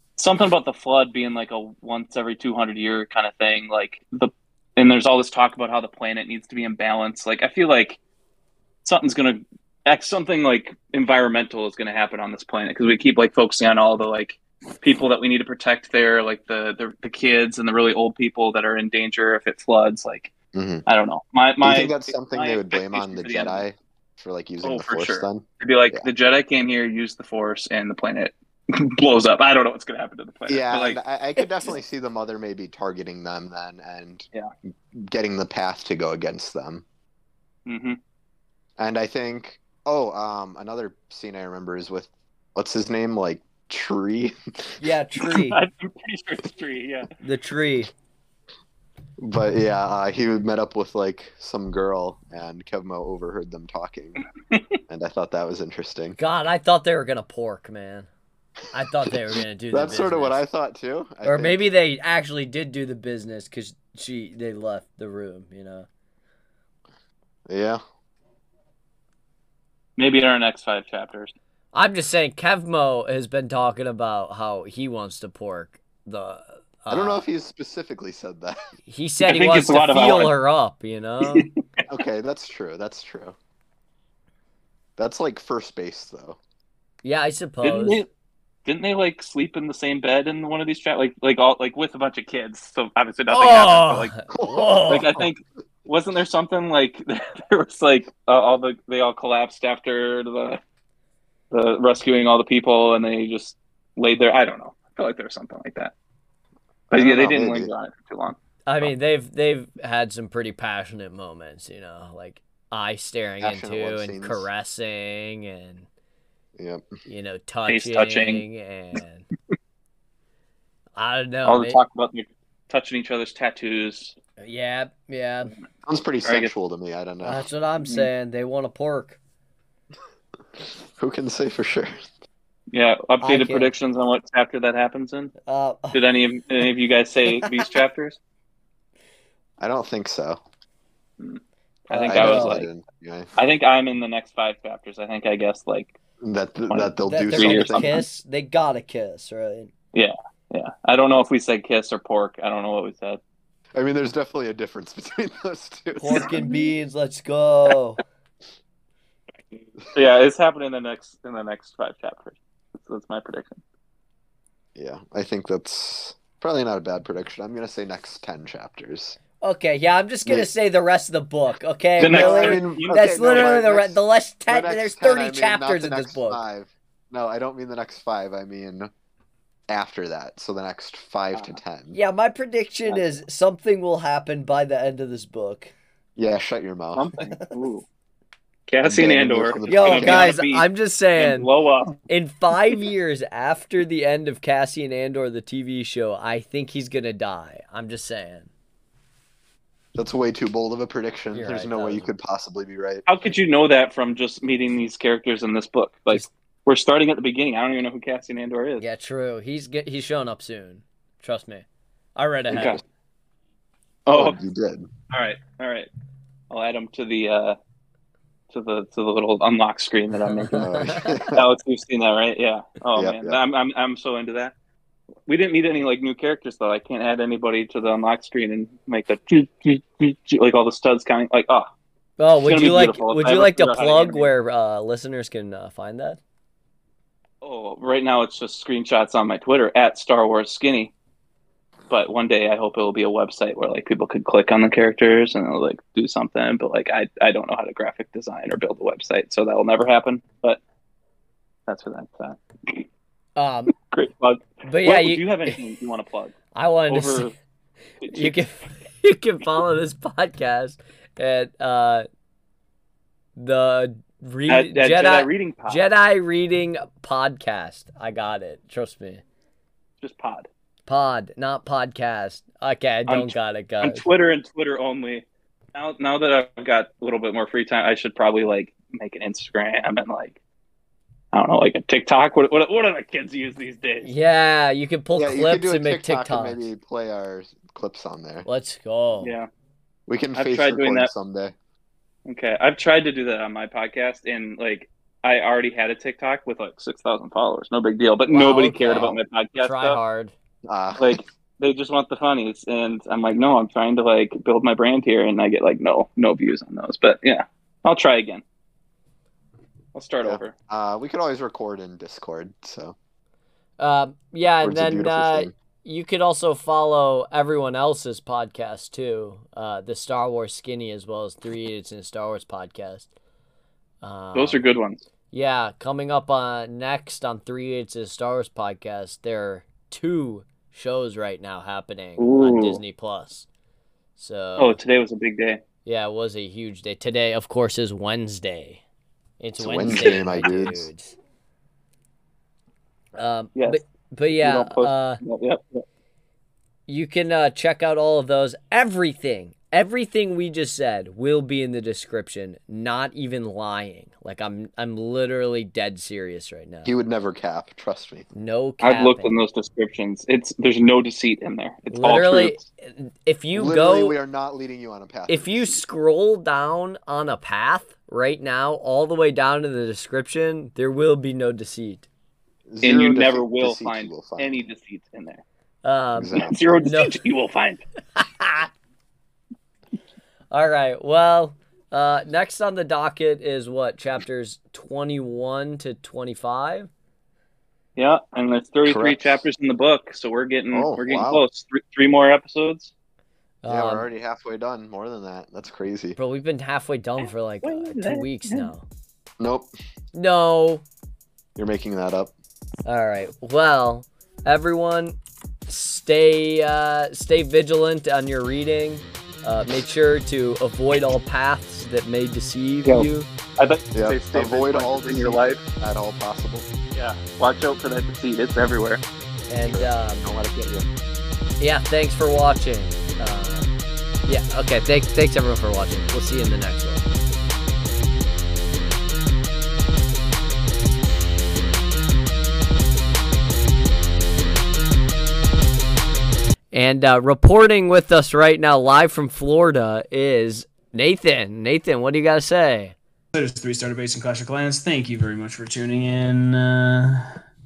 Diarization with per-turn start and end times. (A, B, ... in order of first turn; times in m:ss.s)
0:00.2-0:08.0 A
0:08.8-0:20.3 A
0:20.5-0:20.8 B
0:20.9-0:23.6 A
0:21.6-0:26.1 B
0:24.6-0:31.8 A
0:30.5-0:34.3 B
0:34.9-0:36.8 B
0:37.7-0:38.0 A
0:38.8-0:44.8 B
0:44.8-0:45.6 C
0:45.3-0:47.1 A
0:47.2-0:47.9 C
0:49.2-0:54.2 B
0:54.9-0:56.2 B
0:56.2-0:58.1 C
0:58.7-1:00.4 C
0:59.7-1:01.6 B
1:01.2-1:05.9 C
1:07.5-1:07.8 B
1:10.0-1:11.3 A
1:11.7-1:17.2 C
1:16.9-1:18.6 B
1:18.9-1:21.5 C
1:19.2-1:20.4 A
1:21.2-1:21.5 A
1:21.9-1:23.4 B
1:25.0-1:26.4 B
1:27.0-1:28.0 C
1:27.6-1:28.1 A
1:28.7-1:34.1 A
1:33.3-1:35.3 C
1:34.3-1:35.0 B
1:34.9-1:40.6 A
1:41.5-1:45.9 A
1:46.9-1:47.7 B
1:46.9-1:48.9 A
1:48.7-1:55.9 C
1:53.4-1:54.5 B
1:56.6-1:56.9 B
1:57.1-1:59.3 C
1:57.7-1:58.4 A
2:01.0-2:01.8 C
2:01.4-2:04.2 A
2:04.4-2:05.5 C
2:05.8-2:07.4 B
2:06.2-2:06.5 A
2:07.2-2:09.2 C
2:11.0-2:12.0 B
2:12.7-2:15.3 A
2:13.2-2:13.7 C
2:15.5-2:16.0 C
2:15.9-2:18.2 A
2:19.6-2:20.4 B
2:21.2-2:22.7 A
2:21.9-2:22.6 C
2:22.0-2:23.3 B
2:23.4-2:25.9 A
2:26.2-2:28.0 B
2:26.7-2:28.1 A
2:27.0-2:29.7 C
2:29.9-2:33.2 A
2:33.8-2:36.4 B
2:36.0-2:38.0 C
2:36.0-2:36.7 A
2:39.5-2:43.6 A
2:44.8-2:49.2 B
2:49.4-2:56.4 C
2:52.0-2:53.5 A
2:52.0-2:58.9 B
2:59.7-3:02.0 B
3:01.3-3:01.6 A
3:01.9-3:05.7 C
3:02.9-3:03.1 A
3:06.2-3:07.1 B
3:06.9-3:07.9 A
3:08.7-3:12.0 A
3:08.8-3:10.4 B
3:09.7-3:11.5 C
3:12.1-3:18.5 C
3:20.0-3:23.1 B
3:21.3-3:22.1 C
3:23.1-3:28.8 A
3:28.8-3:31.6 C
3:32.2-3:32.8 C
3:32.5-3:32.8 A
3:34.1-3:34.4 A
3:34.1-3:34.9 B
3:35.1-3:35.9 A
3:36.5-3:37.6 A
3:38.5-3:40.7 A
3:40.3-3:41.2 C
3:40.6-3:41.5 B
3:41.3-3:44.5 A
3:42.9-3:43.4 B
3:45.3-3:51.7 A
3:52.2-3:56.2 C
3:52.4-3:54.3 A
3:57.4-4:00.9 A
4:01.9-4:10.6 A
4:11.7-4:12.9 A
4:13.4-4:13.7 C
4:13.9-4:16.4 A
4:14.6-4:15.6 C
4:16.5-4:17.3 C
4:16.9-4:17.3 A
4:18.0-4:22.1 C
4:18.0-4:18.4 A
4:23.4-4:29.2 C
4:24.5-4:25.8 A
4:30.0-4:30.5 A
4:30.9-4:34.1 C
4:33.1-4:35.2 A
4:35.8-4:40.4 A
4:41.3-4:44.1 A
4:44.0-4:46.7 C
4:45.1-4:48.5 B
4:48.4-4:49.4 C
4:49.2-4:49.5 A
4:50.1-4:51.6 B
4:50.4-4:51.1 A
4:52.2-5:00.0 A
4:58.3-5:00.3 C
5:00.7-5:01.2 B
5:01.0-5:08.4 A
5:09.9-5:10.6 A
5:10.2-5:13.0 B
5:13.8-5:23.1 C
5:14.6-5:15.5 B
5:24.0-5:24.6 C
5:24.3-5:25.0 A
5:25.3-5:33.5 C
5:32.2-5:32.8 A
5:34.2-5:34.8 C
5:34.6-5:35.6 A
5:35.8-5:38.8 C
5:39.4-5:41.2 C
5:39.6-5:40.9 B
5:39.9-5:40.2 A
5:43.2-5:45.2 C
5:44.4-5:45.8 A
5:46.9-5:56.9 C
5:56.8-5:58.3 B
5:58.3-5:59.4 C
5:58.8-6:02.6 A
6:01.9-6:04.2 C
6:03.6-6:05.8 B
6:05.3-6:12.1 C
6:12.7-6:14.6 B
6:12.8-6:15.4 A
6:15.8-6:17.2 C
6:16.2-6:16.8 B
6:16.3-6:17.8 A
6:18.2-6:18.7 C
6:20.5-6:26.9 C
6:28.0-6:32.9 A
6:28.8-6:29.4 B
6:30.7-6:31.4 B
6:33.6-6:34.1 C
6:33.7-6:36.2 B
6:36.2-6:38.8 C
6:37.2-6:38.7 A
6:39.4-6:39.7 B
6:40.1-6:40.8 C
6:41.6-6:42.3 B
6:42.8-6:53.3 C
6:52.8-6:55.7 A
6:53.9-6:56.7 B
6:56.9-6:59.0 A
6:59.5-7:00.3 C
6:59.6-7:00.9 B
7:01.6-7:03.7 C
7:04.3-7:07.1 C
7:16.7-7:23.0 C
7:23.3-7:27.3 D